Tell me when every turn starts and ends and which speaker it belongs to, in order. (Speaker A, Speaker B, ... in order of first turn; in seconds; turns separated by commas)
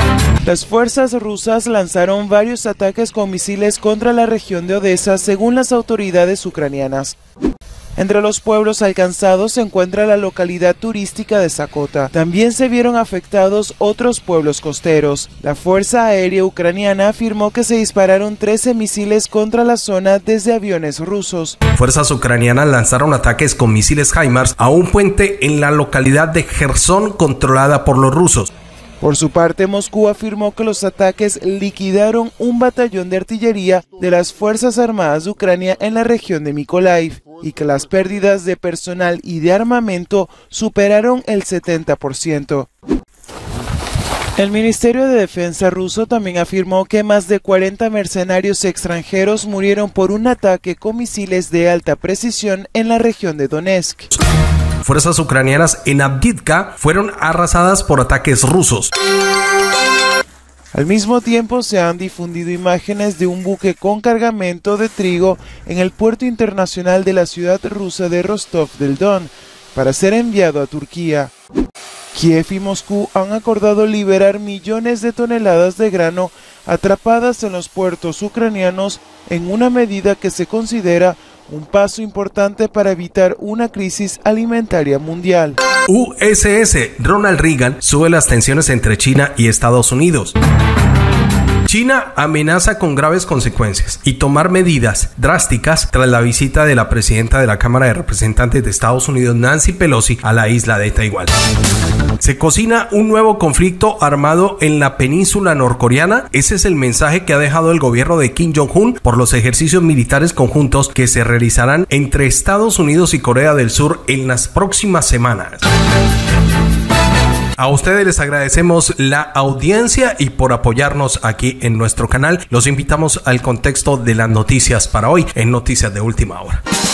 Speaker A: 0.4-7.2, Speaker A: 8.0-21.6, Speaker B: 21.7-28.5, Speaker A: 29.0-42.7, Speaker A: 44.4-54.1, Speaker B: 54.8-58.9, Speaker A: 60.7-71.3, Speaker A: 72.1-85.6, Speaker B: 85.8-90.3, Speaker B: 91.7-101.3, Speaker B: 102.2-115.6, Speaker B: 117.6-126.6